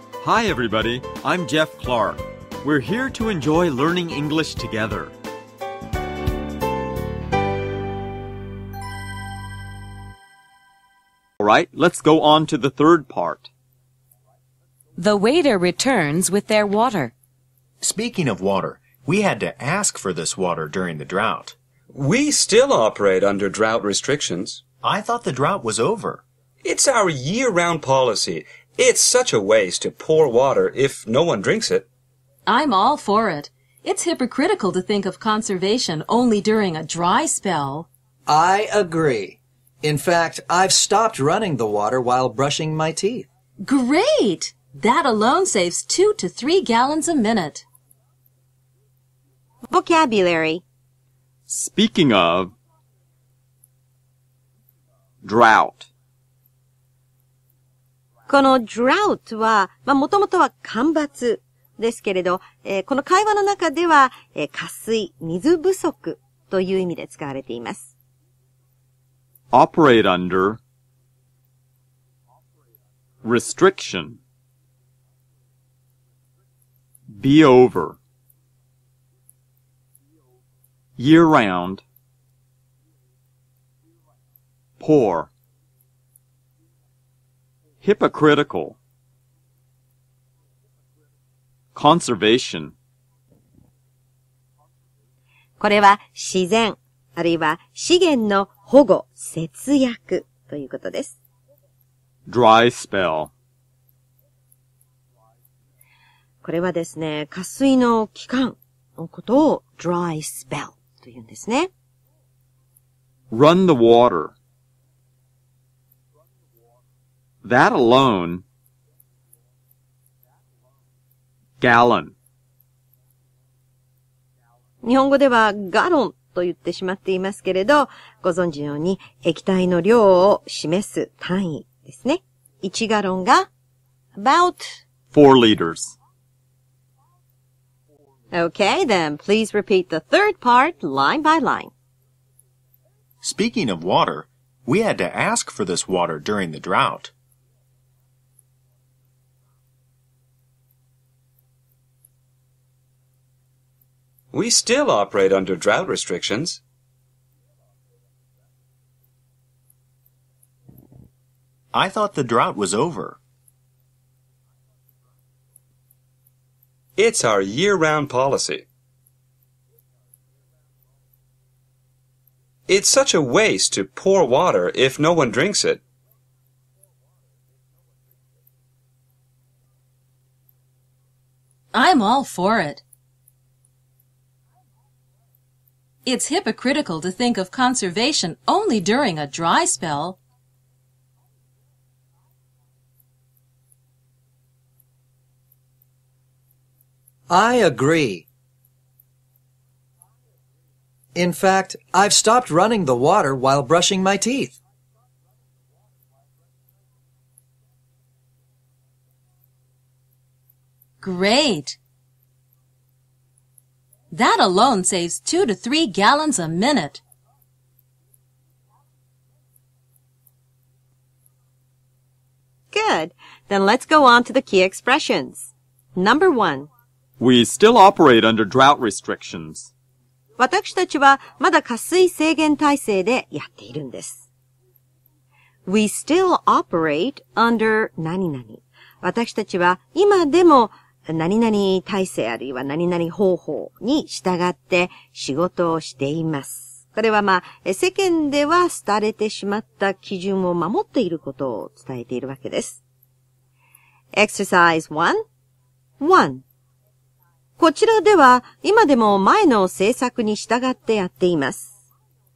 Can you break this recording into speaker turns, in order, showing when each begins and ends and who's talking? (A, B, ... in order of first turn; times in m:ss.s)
0:00.2-0:05.1 A
0:11.4-0:13.5 A
0:15.0-0:17.1 B
0:17.8-0:21.5 C
0:21.9-0:24.6 D
0:24.8-0:26.2 C
0:26.6-0:31.8 D
0:32.4-0:37.9 E
0:38.3-0:43.3 F
0:43.6-0:47.6 E
0:49.7-0:50.6 G
0:51.5-0:52.5 A
0:55.2-0:55.9 A
0:58.3-1:07.9 G
1:09.5-1:10.6 A
1:13.2-1:14.2 A
1:17.2-1:18.0 A
1:21.0-1:21.8 A
1:24.8-1:25.3 A
1:27.8-1:28.8 A
1:31.7-1:32.7 A
1:35.6-1:41.2 G
1:42.3-1:43.3 A
1:46.4-1:51.7 G
1:53.3-1:54.3 A
1:57.4-1:58.4 A
2:01.6-2:02.1 A
2:04.8-2:13.5 G
2:14.2-2:14.8 G
2:15.1-2:15.9 A
2:18.3-2:21.7 G
2:23.2-2:27.1 C
2:34.3-2:36.6 D
2:41.7-2:43.2 C
2:47.0-2:48.6 D
2:52.7-2:55.8 D
3:01.7-3:02.8 E
3:06.0-3:10.2 E
3:17.3-3:18.2 F
3:21.1-3:24.6 F
3:31.0-3:31.8 E
3:34.1-3:37.0 E
3:42.7-3:46.7 G
3:47.2-3:49.7 A
3:50.4-3:54.3 G
3:55.6-4:12.8 G
4:14.1-4:15.2 G
4:16.0-4:16.4 G
4:17.6-4:21.8 G